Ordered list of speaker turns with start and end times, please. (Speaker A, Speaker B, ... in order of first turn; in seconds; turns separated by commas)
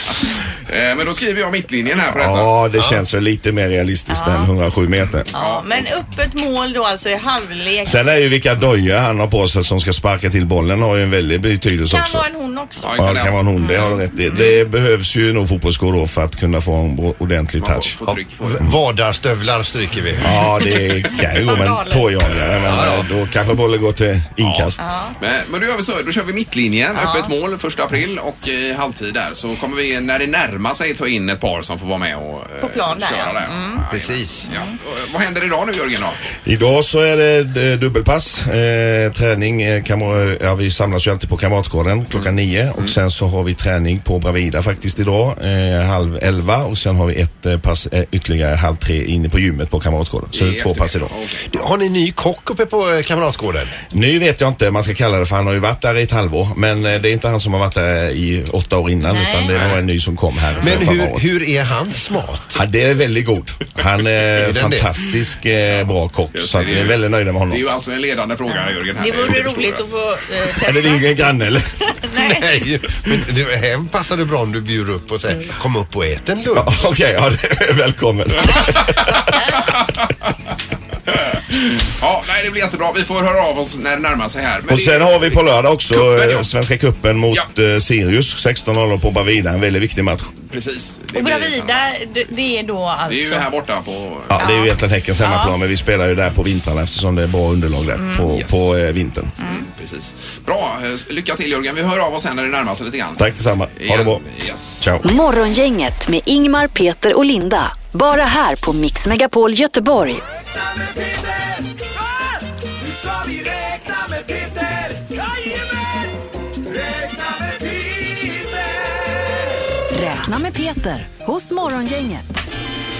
Speaker A: 0.7-3.0, Speaker B: 2.1-5.3, Speaker C: 4.1-4.5, Speaker A: 5.2-5.8, Speaker C: 5.3-8.0, Speaker B: 7.8-12.2, Speaker C: 11.9-13.0, Speaker A: 12.8-14.0, Speaker B: 13.0-17.9, Speaker C: 13.6-14.6, Speaker A: 17.6-18.7, Speaker D: 18.0-20.3, Speaker B: 20.2-24.8, Speaker C: 21.2-22.1, Speaker A: 22.3-23.1, Speaker A: 24.4-36.2, Speaker C: 24.8-25.1, Speaker C: 26.9-27.3, Speaker C: 32.6-33.8, Speaker D: 33.9-34.5, Speaker C: 34.5-34.7, Speaker B: 36.5-51.1, Speaker A: 42.1-42.9, Speaker A: 50.3-51.7, Speaker D: 51.5-53.8, Speaker B: 53.9-61.2, Speaker C: 59.0-59.7, Speaker D: 60.6-62.6, Speaker B: 62.5-67.7, Speaker D: 64.4-64.9, Speaker A: 66.3-69.9, Speaker C: 68.5-71.3, Speaker B: 70.6-71.7, Speaker C: 71.8-72.5, Speaker D: 72.1-76.7, Speaker B: 76.5-79.4, Speaker C: 78.4-79.7, Speaker A: 79.6-79.9, Speaker A: 82.0-86.5, Speaker B: 84.7-90.3, Speaker A: 90.5-91.9, Speaker C: 91.1-93.5, Speaker A: 93.1-94.4, Speaker B: 94.3-99.3, Speaker C: 94.4-95.5, Speaker C: 97.9-98.3, Speaker A: 98.3-98.7, Speaker A: 99.4-104.9, Speaker B: 103.2-104.2, Speaker B: 104.8-105.0, Speaker E: 105.0-110.2, Speaker F: 110.5-116.1, Speaker F: 116.7-119.5, Speaker E: 119.9-122.2